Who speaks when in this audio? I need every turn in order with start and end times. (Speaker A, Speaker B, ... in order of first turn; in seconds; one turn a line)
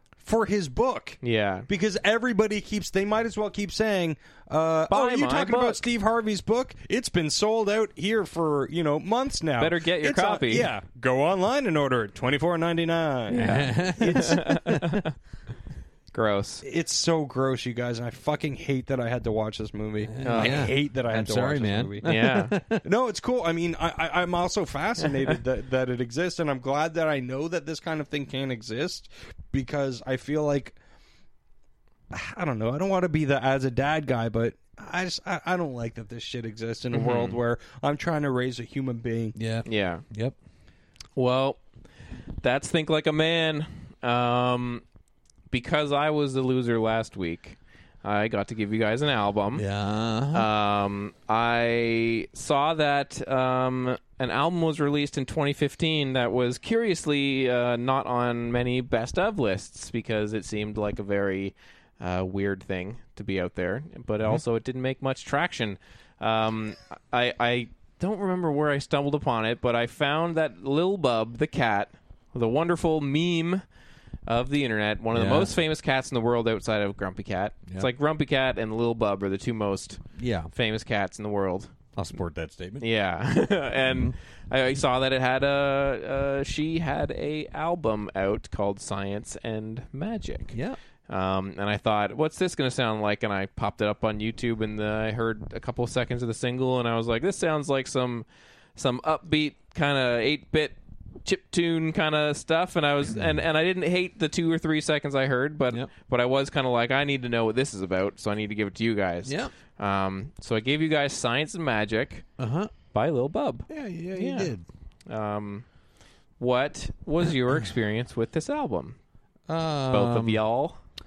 Speaker A: 0.2-14.5
Speaker B: 1.2-1.7
Speaker B: 4.9-5.8
Speaker B: 9.6-10.7
Speaker B: 13.3-15.1
Speaker C: 13.3-15.0
Speaker B: 16.1-16.6
Speaker A: 16.6-22.1
Speaker C: 20.1-22.8
Speaker B: 20.2-20.6
Speaker B: 22.0-22.5
Speaker A: 22.8-30.8
Speaker A: 32.1-39.4
Speaker B: 36.9-37.4
Speaker C: 39.4-40.4
Speaker B: 39.6-40.0
Speaker B: 41.2-41.6
Speaker B: 42.4-44.8
Speaker B: 45.5-49.6
Speaker C: 49.5-50.5
Speaker B: 50.3-73.6
Speaker B: 74.3-81.7
Speaker C: 75.1-75.5
Speaker C: 80.2-80.5
Speaker C: 81.9-82.8
Speaker B: 82.8-90.5
Speaker C: 83.9-84.1
Speaker C: 90.5-90.8
Speaker B: 91.1-112.2
Speaker C: 103.1-103.4
Speaker C: 109.2-109.5
Speaker C: 112.4-112.7
Speaker B: 112.9-114.5
Speaker C: 113.7-114.6
Speaker B: 115.1-115.7
Speaker B: 116.4-119.0
Speaker C: 119.5-120.4
Speaker B: 119.9-120.8